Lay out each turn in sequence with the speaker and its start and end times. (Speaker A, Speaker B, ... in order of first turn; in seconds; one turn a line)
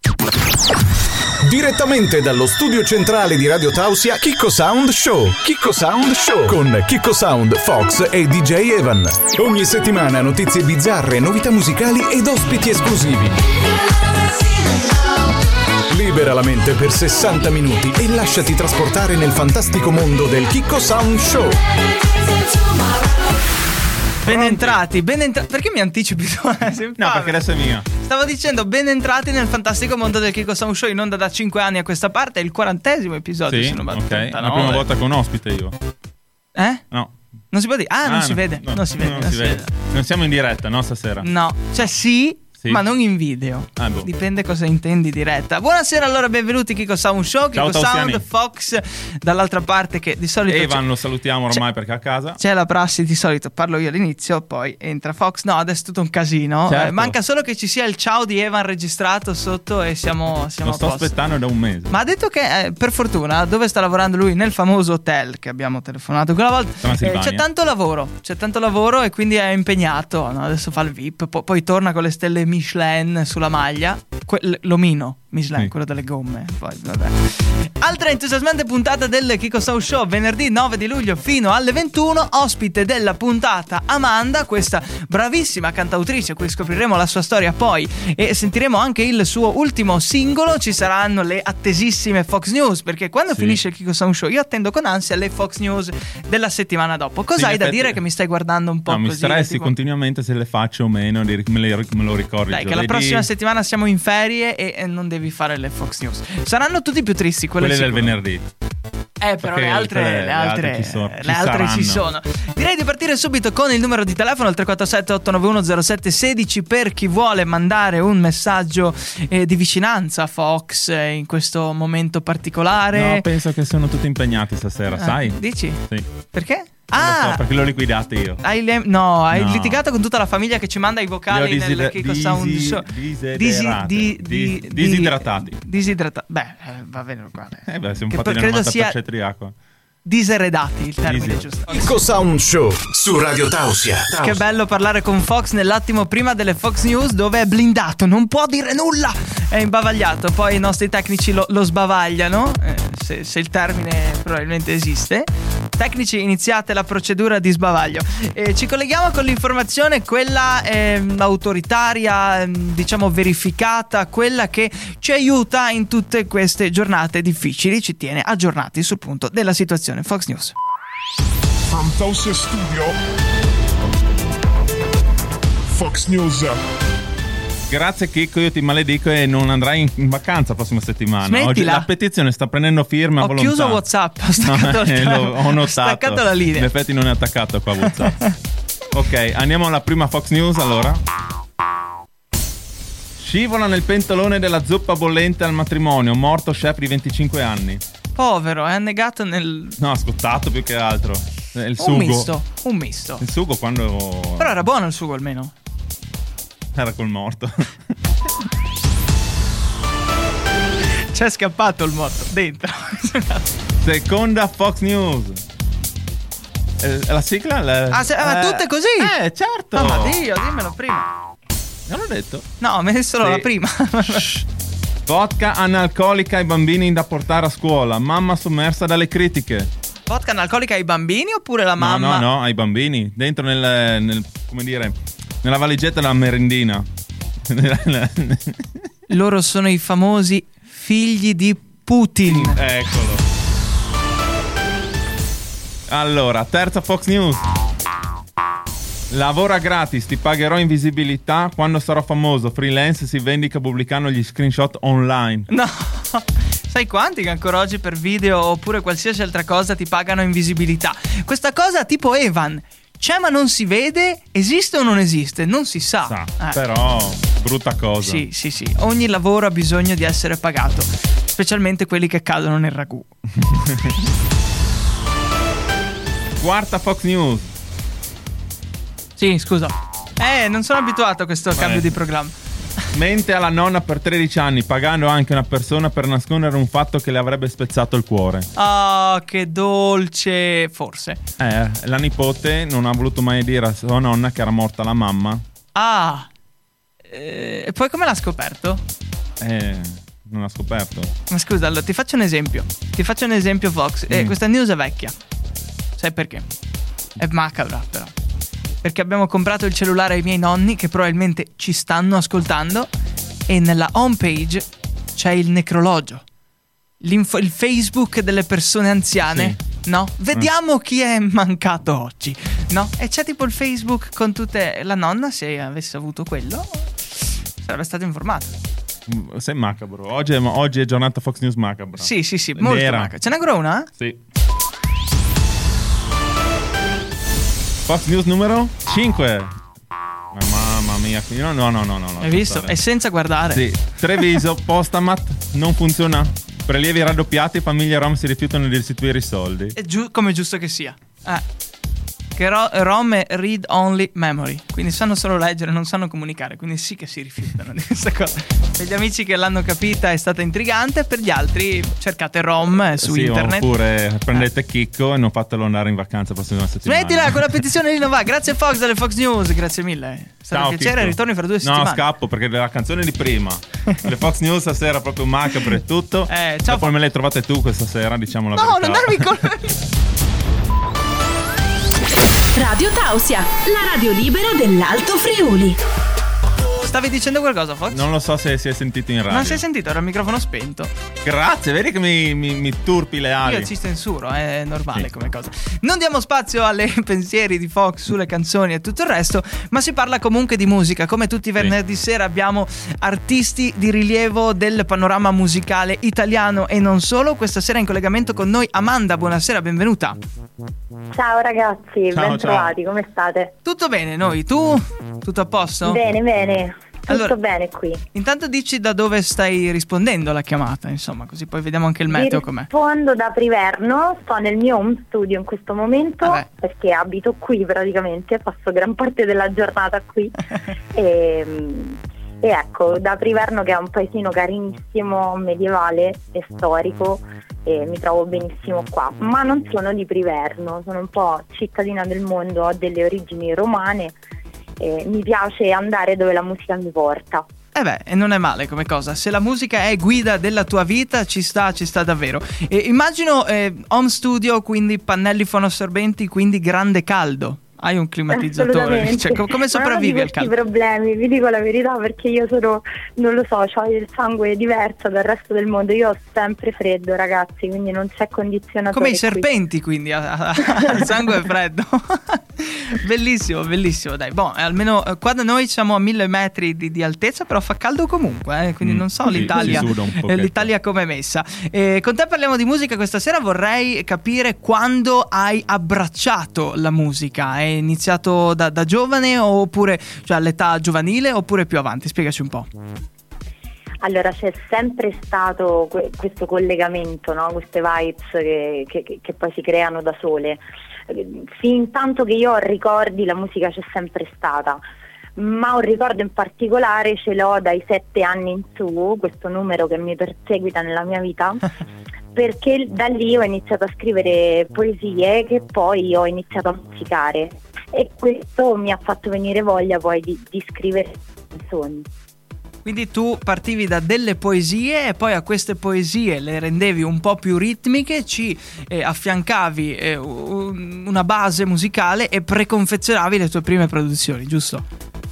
Speaker A: 1.4-13.3
Speaker A: 15.9-21.6
Speaker B: 24.2-24.8
Speaker C: 24.2-27.4
Speaker B: 27.0-27.9
Speaker C: 27.9-34.9
Speaker B: 33.5-35.8
Speaker C: 36.6-36.8
Speaker C: 37.5-39.7
Speaker B: 38.0-41.3
Speaker C: 41.2-50.9
Speaker B: 42.6-42.8
Speaker B: 43.8-44.1
Speaker B: 47.5-48.2
Speaker B: 50.5-52.4
Speaker C: 52.4-61.1
Speaker B: 56.7-57.1
Speaker B: 60.6-61.9
Speaker C: 61.9-99.7
Speaker B: 66.8-67.5
Speaker B: 93.3-93.6
Speaker B: 97.3-98.0
Speaker B: 98.9-103.3
Speaker C: 102.5-108.2
Speaker B: 107.6-108.5
Speaker C: 109.2-123.3
Speaker B: 109.4-112.1
Speaker B: 122.9-126.1
Speaker C: 125.0-127.4
Speaker B: 126.9-128.4
Speaker C: 128.4-139.0
Speaker B: 129.3-129.8
Speaker B: 131.3-135.6
Speaker B: 137.7-139.5
Speaker C: 140.1-141.8
Speaker B: 141.1-141.5
Speaker A: 141.7-144.4
Speaker C: 144.2-170.6
Speaker D: 171.7-173.0
Speaker D: 175.7-176.6
Speaker B: 177.7-183.8
Speaker C: 181.3-181.9
Speaker C: 183.2-186.7
Speaker B: 184.4-188.2
Speaker C: 188.0-188.3
Speaker B: 188.9-191.0
Speaker B: 193.2-197.8
Speaker C: 198.2-199.8
Speaker B: 199.8-202.3
Speaker C: 201.8-203.2
Speaker B: 203.2-204.6
Speaker C: 204.4-205.5
Speaker B: 206.8-207.7
Speaker C: 211.1-213.4
Speaker B: 213.8-215.4
Speaker B: 216.8-220.2
Speaker C: 217.9-219.1
Speaker C: 219.7-221.1
Speaker B: 221.9-222.5
Speaker C: 222.6-224.3
Speaker B: 224.1-224.4
Speaker B: 225.1-229.7
Speaker C: 230.1-232.2
Speaker B: 231.8-236.9
Speaker B: 237.5-238.8
Speaker C: 239.1-242.6
Speaker B: 242.3-243.2
Speaker B: 245.9-247.5
Speaker B: 249.1-255.5
Speaker C: 255.5-266.6
Speaker B: 266.1-268.2
Speaker C: 268.0-273.1
Speaker B: 276.4-277.5
Speaker C: 279.2-282.3
Speaker B: 281.6-281.9
Speaker B: 282.9-288.5
Speaker C: 288.6-291.2
Speaker B: 291.4-295.4
Speaker C: 295.8-296.3
Speaker C: 297.1-298.8
Speaker B: 299.4-301.1
Speaker C: 301.3-305.1
Speaker B: 304.1-304.4
Speaker C: 306.0-306.5
Speaker C: 307.2-308.1
Speaker C: 308.8-312.9
Speaker C: 313.5-316.2
Speaker C: 317.0-328.5
Speaker B: 319.2-319.6
Speaker B: 329.1-333.1
Speaker C: 332.0-333.9
Speaker B: 337.9-339.5
Speaker B: 340.3-342.8
Speaker C: 342.2-343.6
Speaker B: 343.5-349.8
Speaker C: 349.8-351.4
Speaker C: 352.4-363.7
Speaker B: 363.0-367.6
Speaker C: 366.9-372.0
Speaker B: 370.5-379.3
Speaker C: 376.3-376.9
Speaker C: 378.5-379.8
Speaker E: 382.6-385.8
Speaker C: 386.8-388.0
Speaker B: 387.9-389.6
Speaker C: 389.3-390.9
Speaker B: 391.2-393.7
Speaker C: 393.4-410.2
Speaker F: 411.1-413.6
Speaker B: 412.1-412.7
Speaker C: 413.6-416.0
Speaker F: 415.8-418.0
Speaker C: 417.1-417.3
Speaker C: 418.1-422.7
Speaker F: 422.1-430.4
Speaker C: 426.2-426.5
Speaker F: 430.9-444.2
Speaker F: 444.8-447.5
Speaker C: 447.8-460.5
Speaker F: 458.3-469.5
Speaker C: 468.9-492.7
Speaker F: 470.7-471.1
Speaker B: 478.8-480.7
Speaker F: 479.5-479.9
Speaker F: 494.0-504.8
Speaker F: 505.4-511.7
Speaker F: 512.3-522.1
Speaker C: 522.9-534.9